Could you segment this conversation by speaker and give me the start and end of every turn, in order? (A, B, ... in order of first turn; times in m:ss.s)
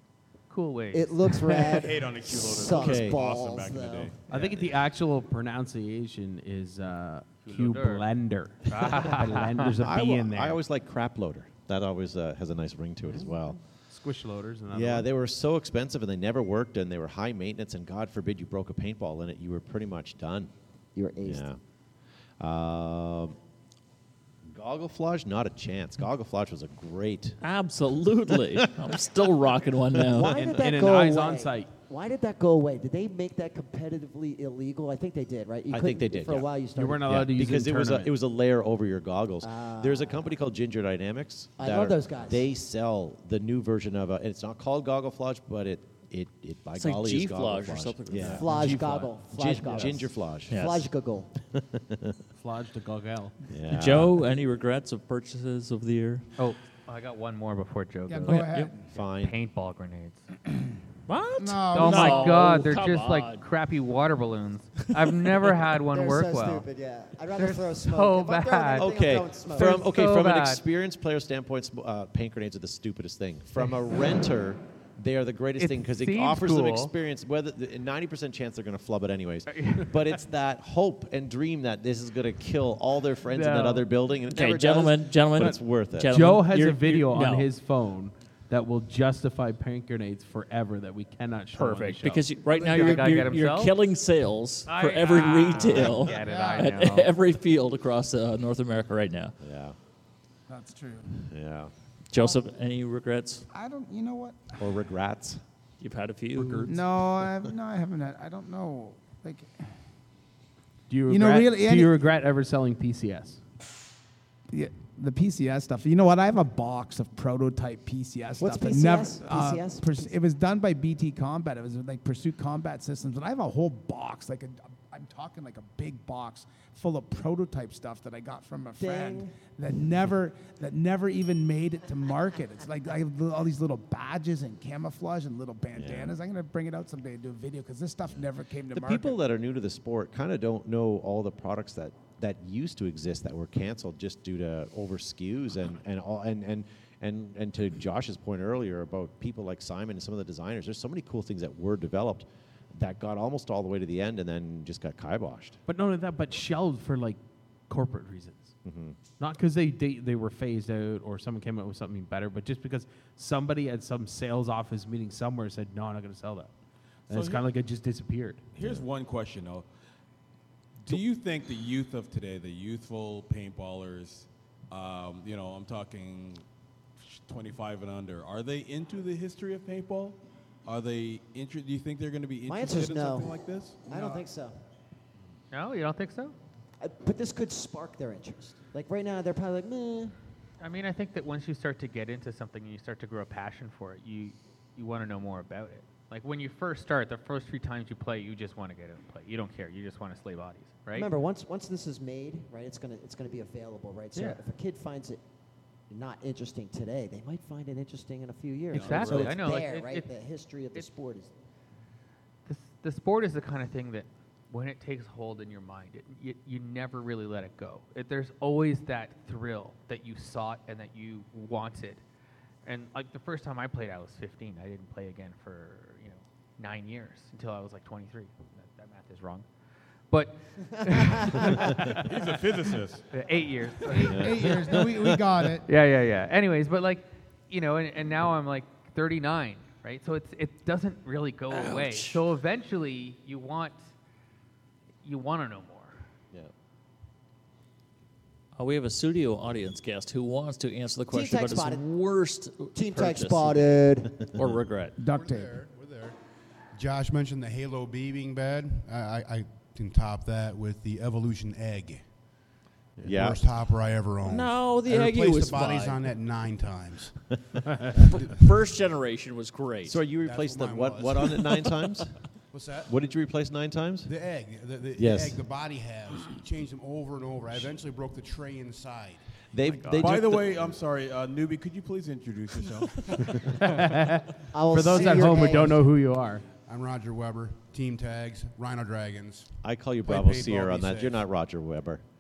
0:00.5-0:01.6 A
0:00.9-0:04.1 B
0:01.5-0:04.4 C
0:02.7-0:03.2 D
0:04.3-0:10.6 E
0:07.4-0:08.0 A
0:08.6-0:09.7 A
0:09.8-0:13.6 D
0:13.9-0:15.1 E
0:14.7-0:20.5 D
0:21.0-0:21.4 B
0:21.2-0:21.6 D
0:22.4-0:23.4 D
0:24.5-0:27.4 D
0:27.4-0:30.3 F
0:30.1-0:37.1 B
0:30.3-0:31.7 E
0:35.7-0:48.7 D
0:36.7-0:38.1 E
0:39.4-0:40.4 B
0:41.6-0:42.4 B
0:46.8-0:48.5 F
0:48.2-0:51.3 B
0:48.5-0:49.2 E
0:49.3-0:50.6 D
0:50.5-0:50.8 F
0:51.5-0:52.2 D
0:52.4-0:53.4 E
0:53.5-0:54.1 D
0:53.7-0:56.3 F
0:56.4-1:00.3 A
0:58.1-0:58.8 G
0:58.3-0:58.7 F
0:58.9-0:59.4 D
1:01.1-1:03.4 F
1:01.4-1:02.3 G
1:01.7-1:06.7 A
1:05.9-1:09.9 B
1:07.4-1:08.9 A
1:08.8-1:26.3 D
1:09.5-1:10.6 A
1:15.6-1:16.9 A
1:19.5-1:19.9 A
1:23.4-1:23.8 A
1:23.4-1:23.8 E
1:24.3-1:27.5 F
1:26.1-1:32.3 E
1:31.5-1:39.4 F
1:32.5-1:33.7 A
1:32.6-1:33.0 G
1:34.7-1:37.1 A
1:36.2-1:36.7 G
1:39.4-1:39.8 D
1:40.5-1:41.2 G
1:41.3-1:41.7 D
1:42.1-1:43.4 F
1:43.5-1:44.6 G
1:44.6-1:45.4 D
1:45.8-1:47.0 F
1:46.6-1:49.5 G
1:50.9-1:53.4 E
1:51.1-1:52.0 G
1:54.5-2:19.2 G
1:58.4-2:00.1 B
2:08.8-2:09.4 B
2:15.7-2:16.1 D
2:18.7-2:35.6 D
2:35.7-2:38.6 E
2:38.6-2:39.0 D
2:39.2-2:46.5 E
2:47.1-2:48.5 E
2:47.1-2:47.4 C
2:48.5-2:49.7 C
2:50.8-2:56.4 C
2:57.0-3:04.2 C
3:02.4-3:04.6 B
3:05.5-3:06.4 A
3:06.8-3:10.1 B
3:10.6-3:21.1 A
3:20.9-3:25.2 B
3:25.9-3:31.3 B
3:28.7-3:29.4 C
3:28.7-3:30.1 A
3:32.5-3:42.0 A
3:42.6-3:49.4 A
3:50.1-3:52.0 A
3:50.9-3:51.5 B
3:51.9-3:53.1 C
3:53.1-3:54.6 A
3:54.0-3:55.6 G
3:54.1-3:55.2 D
3:55.7-4:03.9 A
4:01.5-4:02.2 F
4:05.0-4:06.0 A
4:08.6-4:15.0 F
4:11.1-4:11.9 B
4:12.7-4:14.2 B
4:15.0-4:15.6 G
4:15.1-4:16.2 H
4:16.7-4:22.0 H
4:23.0-4:23.5 D
4:23.0-4:27.1 H
4:24.2-4:26.1 F
4:27.7-4:28.0 E
4:28.0-4:30.0 F
4:29.8-4:32.2 D
4:30.2-4:31.6 H
4:32.5-4:32.9 H
4:32.9-4:34.1 D
4:34.0-4:39.2 H
4:35.0-4:35.4 D
4:39.5-4:40.8 D
4:40.0-4:43.6 C
4:43.6-4:46.4 E
4:44.5-4:45.9 B
4:46.6-4:49.5 H
4:49.6-4:52.0 D
4:50.1-4:51.2 H